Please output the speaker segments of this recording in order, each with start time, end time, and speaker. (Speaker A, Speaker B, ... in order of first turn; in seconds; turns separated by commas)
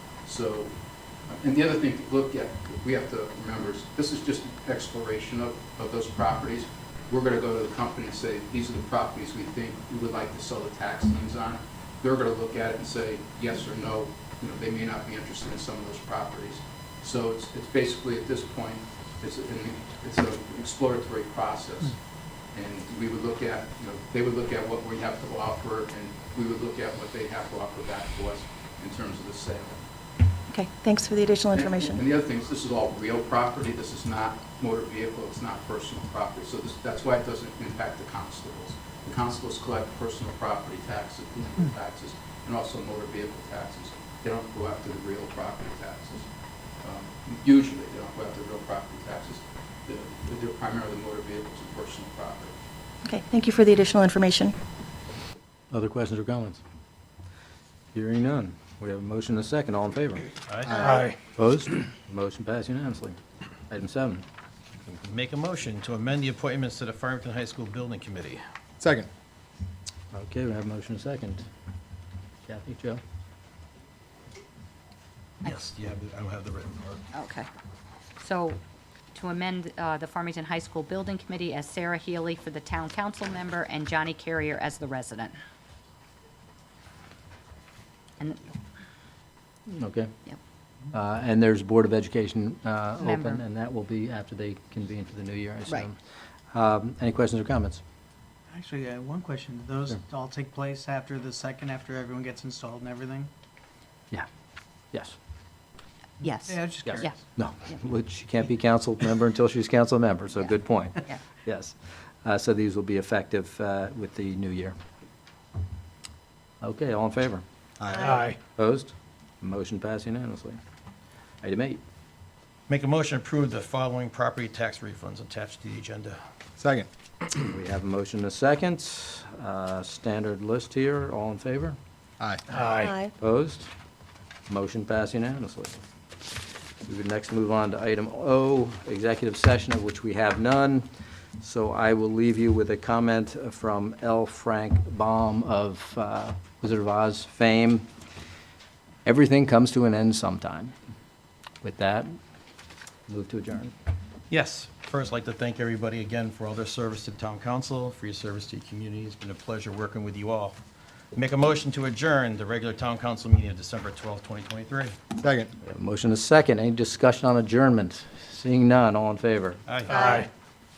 Speaker A: 0.2-0.7, Speaker A: 1.3-21.9, Speaker A: 22.5-29.8, Speaker B: 30.5-32.0, Speaker A: 31.5-46.3, Speaker A: 46.8-52.6, Speaker B: 53.0-54.5, Speaker C: 55.7-56.6, Speaker C: 57.9-60.2, Speaker D: 60.5-60.8, Speaker E: 60.7-61.2, Speaker C: 61.2-63.2, Speaker C: 63.7-64.2, Speaker D: 64.8-68.4, Speaker E: 68.8-69.1, Speaker C: 70.1-71.4, Speaker C: 72.5-73.0, Speaker D: 75.4-77.0, Speaker F: 77.1-77.5, Speaker F: 78.2-78.6, Speaker F: 79.1-85.3, Speaker C: 89.7-90.1, Speaker C: 90.9-96.0, Speaker F: 93.0-93.4, Speaker C: 96.5-97.8, Speaker G: 98.5-103.3, Speaker F: 106.2-107.1, Speaker G: 106.3-107.2, Speaker C: 106.8-114.8, Speaker C: 116.6-117.4, Speaker E: 117.8-118.4, Speaker C: 118.0-120.6, Speaker C: 121.4-121.8, Speaker D: 122.7-126.2, Speaker E: 126.6-126.9, Speaker C: 127.3-131.8, Speaker E: 132.2-132.9, Speaker B: 132.8-133.1, Speaker C: 133.2-133.7, Speaker C: 134.5-135.8, Speaker C: 136.8-140.8, Speaker C: 141.4-147.8, Speaker C: 149.0-150.7, Speaker C: 151.6-152.1, Speaker C: 153.1-153.7, Speaker D: 154.3-160.6, Speaker D: 161.1-164.9, Speaker E: 165.2-165.5, Speaker C: 165.6-169.6, Speaker D: 169.7-170.1, Speaker B: 169.9-170.2, Speaker E: 169.9-170.3